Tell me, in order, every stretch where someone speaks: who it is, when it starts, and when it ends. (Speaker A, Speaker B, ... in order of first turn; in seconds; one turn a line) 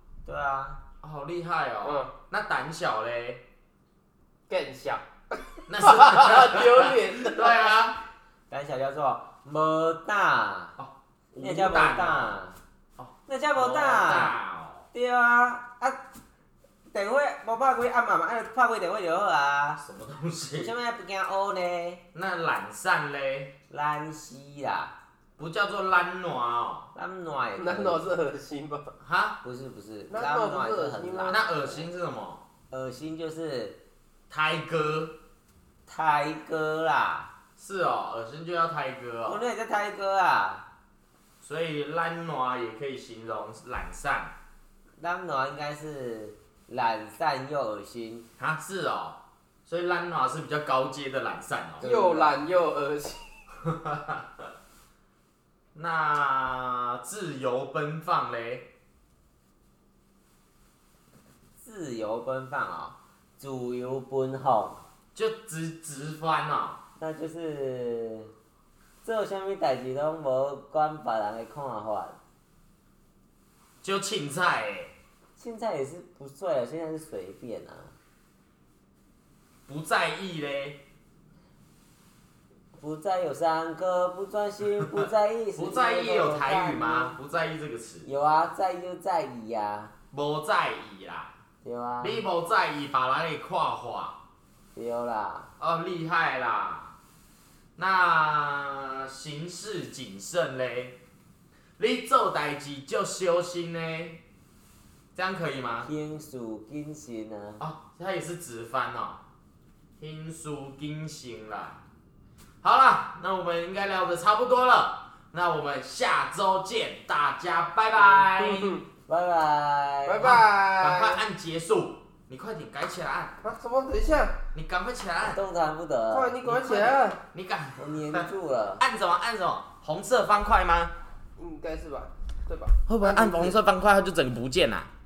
Speaker A: 0.2-0.8
Speaker B: 1.0-3.4
Speaker C: 1.8-2.1
Speaker C: 4.5-7.6
Speaker B: 5.7-8.0
Speaker A: 8.5-10.7
Speaker B: 10.8-12.4
Speaker A: 11.4-12.6
Speaker B: 13.0-14.9
Speaker A: 13.3-14.3
Speaker A: 14.9-16.0
Speaker A: 16.9-19.8
Speaker B: 19.8-20.7
Speaker A: 20.6-22.0
Speaker B: 22.1-23.5
Speaker A: 23.7-24.9
Speaker B: 25.4-26.9
Speaker A: 26.9-28.1
Speaker C: 27.6-28.9
Speaker B: 29.0-29.4
Speaker A: 29.4-31.4
Speaker C: 30.1-31.4
Speaker B: 31.3-32.4
Speaker A: 32.7-33.8
Speaker B: 34.3-35.1
Speaker A: 35.9-37.3
Speaker B: 37.6-39.4
Speaker A: 39.2-40.6
Speaker B: 41.4-44.3
Speaker A: 45.0-48.3
Speaker B: 48.4-51.9
Speaker A: 51.8-52.4
Speaker C: 51.8-53.4
Speaker B: 53.7-54.2
Speaker B: 55.7-58.7
Speaker A: 61.6-64.8
Speaker B: 65.1-66.8
Speaker A: 67.0-68.3
Speaker A: 69.0-72.2
Speaker B: 73.8-74.9
Speaker A: 75.4-77.9
Speaker B: 79.7-80.8
Speaker A: 82.7-87.1
Speaker B: 85.5-88.1
Speaker A: 88.0-89.9
Speaker B: 90.1-91.3
Speaker A: 91.6-92.2
Speaker B: 92.0-94.2
Speaker A: 94.7-95.5
Speaker B: 95.6-97.0
Speaker B: 97.8-101.0
Speaker B: 101.8-104.2
Speaker B: 105.1-105.9
Speaker A: 105.8-107.6
Speaker B: 107.6-109.2
Speaker B: 110.0-111.8
Speaker B: 112.6-118.8
Speaker A: 118.2-120.3
Speaker C: 118.5-118.8
Speaker C: 120.0-121.2
Speaker B: 120.2-123.3
Speaker C: 123.4-124.4
Speaker B: 124.5-125.4
Speaker A: 125.3-126.4
Speaker C: 126.1-127.2
Speaker B: 126.5-128.3
Speaker A: 127.8-128.8
Speaker B: 128.8-130.9
Speaker C: 131.4-133.6
Speaker B: 132.9-134.9